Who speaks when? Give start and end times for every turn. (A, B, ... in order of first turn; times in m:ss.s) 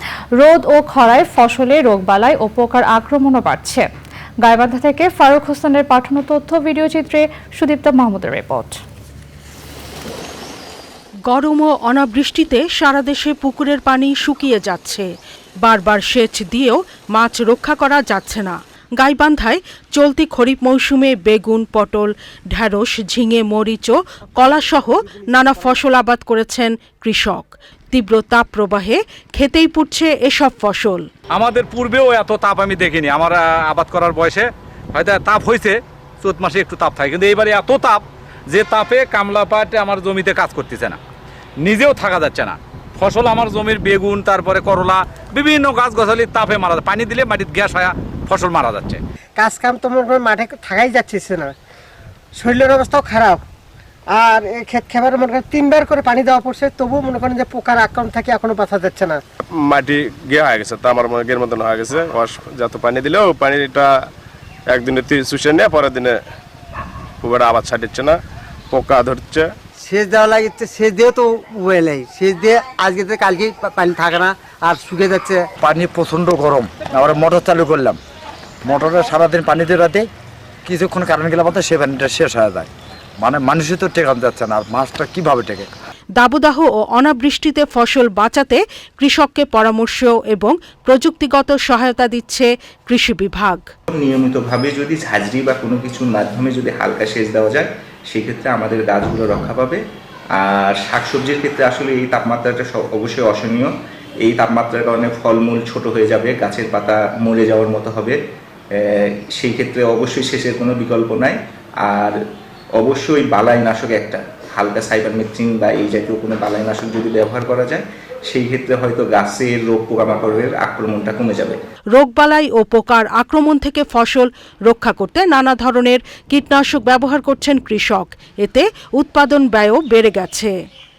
0:00.4-0:03.9 A
0:04.4-0:08.8 A
0:11.3-0:15.1 B
0:15.6-0:31.1 B
0:31.3-0:41.0 C
0:41.6-0:49.0 C
0:49.4-0:51.5 D
0:52.4-0:53.4 D
0:54.1-0:59.2 D
0:59.6-1:03.9 E
1:04.7-1:06.2 E
1:07.2-1:08.2 E
1:08.7-1:09.5 E
1:09.8-1:15.4 F
1:15.6-1:18.0 G
1:18.7-1:20.1 G
1:20.6-1:22.7 G
1:23.2-1:25.7 G
1:26.2-1:33.6 B
1:34.0-1:39.8 H
1:40.4-1:43.7 H
1:44.2-1:48.2 H
1:49.4-1:52.2 H
1:52.8-2:01.6 H
2:01.9-2:10.5 B